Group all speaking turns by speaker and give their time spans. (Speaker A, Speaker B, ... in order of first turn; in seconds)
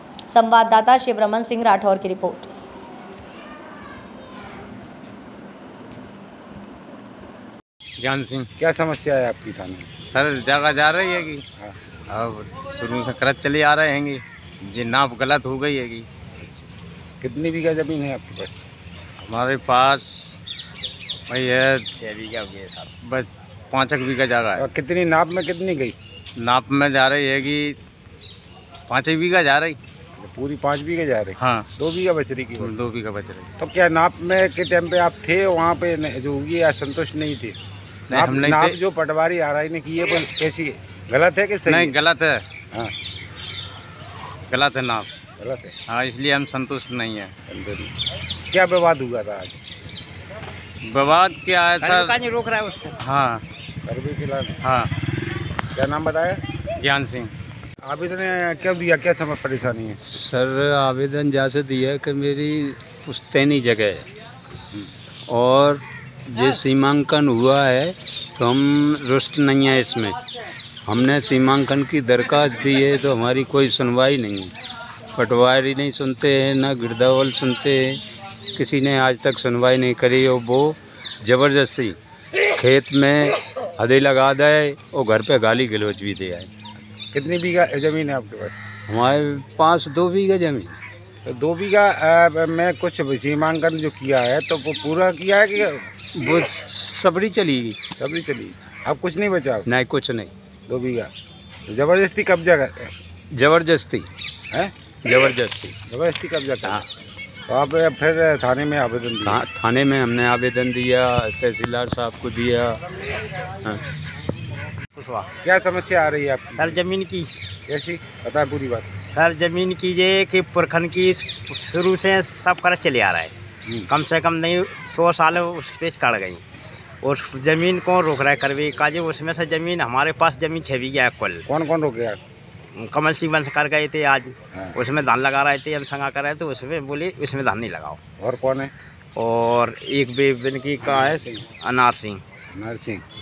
Speaker A: 0.3-2.5
Speaker B: 8.0-8.5, 10.1-11.4, 12.1-16.1, 19.2-20.4, 21.3-21.9, 23.0-24.7, 26.4-27.8, 28.9-29.8, 31.4-31.7, 32.6-33.5, 38.1-38.8, 41.6-42.4, 44.5-45.1, 45.9-47.3, 50.8-52.1, 53.0-53.4, 54.6-54.9, 56.8-57.3
Speaker C: 8.6-9.9, 17.2-18.5, 24.6-25.9, 30.2-32.7, 33.6-37.6, 38.1-41.9, 45.4-45.7, 47.5-47.9, 48.5-49.7, 53.8-54.6, 55.7-56.4, 57.8-60.0, 87.1-88.5, 91.2-95.9, 98.0-99.7, 100.7-101.1, 101.7-102.9, 105.9-106.8, 107.5-109.4, 115.4-116.8, 117.7-118.9, 131.4-132.2, 138.2-138.7, 140.9-141.4, 142.5-143.0
Speaker D: 22.0-22.9, 51.8-53.0, 115.0-115.3, 116.6-117.3, 119.0-123.3, 123.9-126.4, 127.0-131.4, 132.7-138.0, 139.2-142.2
Speaker E: 60.1-64.1, 65.3-70.2, 70.8-74.5, 75.1-78.0, 78.5-82.0, 82.5-86.5, 88.9-90.8, 96.1-97.8, 99.7-100.3, 103.3-104.1, 105.0-105.8, 109.2-112.8